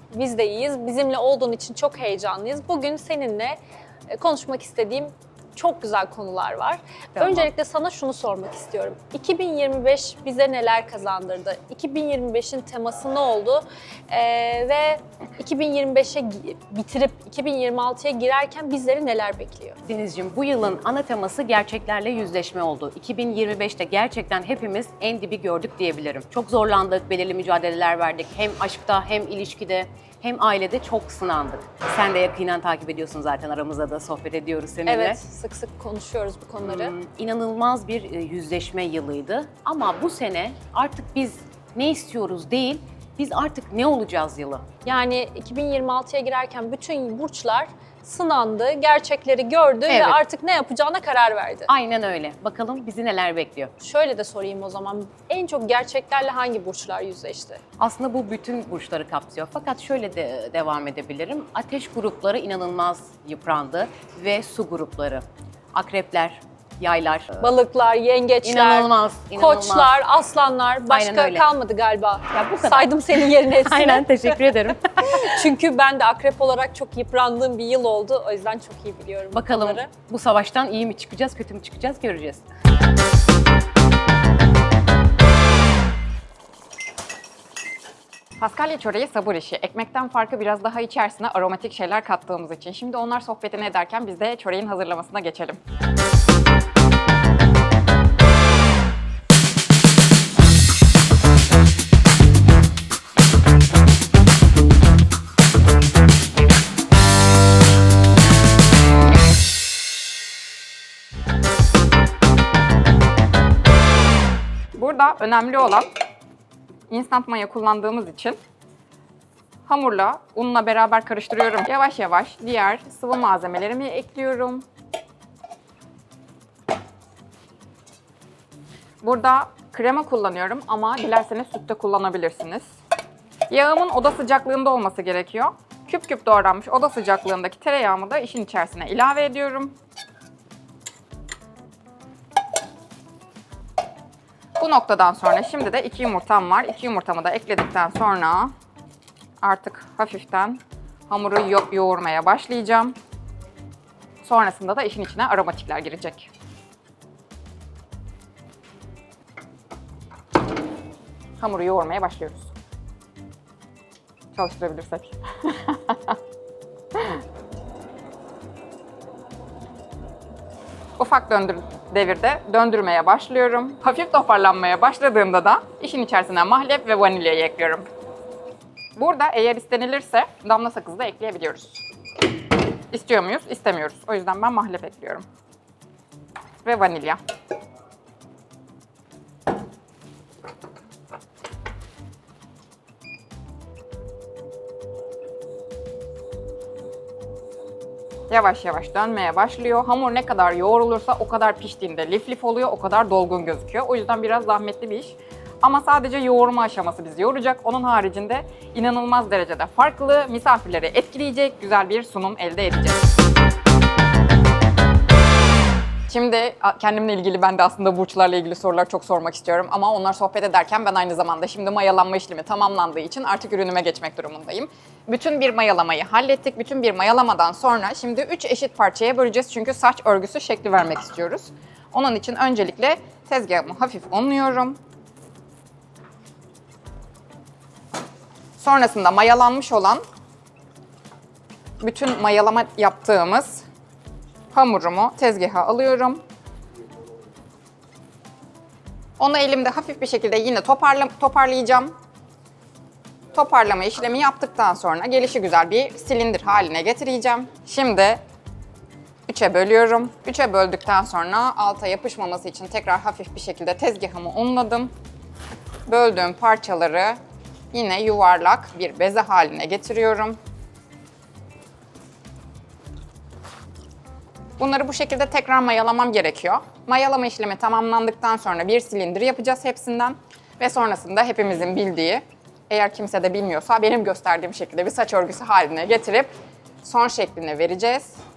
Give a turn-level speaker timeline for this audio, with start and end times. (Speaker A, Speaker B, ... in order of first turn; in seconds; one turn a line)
Speaker A: 0.1-19.8
Speaker B: 7.2-7.5
Speaker B: 19.8-35.2
Speaker A: 34.9-37.0
Speaker B: 36.6-44.7
Speaker A: 44.9-51.7
Speaker B: 49.9-50.2
Speaker B: 51.7-53.7
Speaker A: 53.8-57.6
Speaker B: 57.8-67.5
Speaker A: 67.4-79.9
Speaker B: 68.4-70.0
Speaker B: 70.9-71.5
Speaker B: 72.3-75.4
Speaker B: 79.3-82.5
Speaker C: 88.4-95.6
Speaker C: 114.8-115.9
Speaker C: 116.9-118.4
Speaker C: 119.7-124.7
Speaker C: 129.0-132.7
Speaker C: 133.5-139.8
Speaker C: 144.6-148.5
Speaker C: 149.4-153.0
Speaker C: 154.2-156.3
Speaker C: 161.4-162.5
Speaker C: 164.3-166.2
Speaker C: 166.9-167.2
Speaker C: 171.0-177.8
Speaker C: 179.0-181.8
Speaker C: 182.9-185.2
Speaker C: 186.6-187.2
Speaker C: 198.3-213.1
Speaker C: 216.1-234.8
Speaker C: 238.6-240.0
Speaker C: 241.8-243.7
Speaker C: 244.5-246.2
Speaker C: 249.2-251.9
Speaker C: 253.3-258.2
Speaker C: 259.3-264.9
Speaker C: 265.9-267.2
Speaker C: 267.7-270.4
Speaker C: 274.6-288.2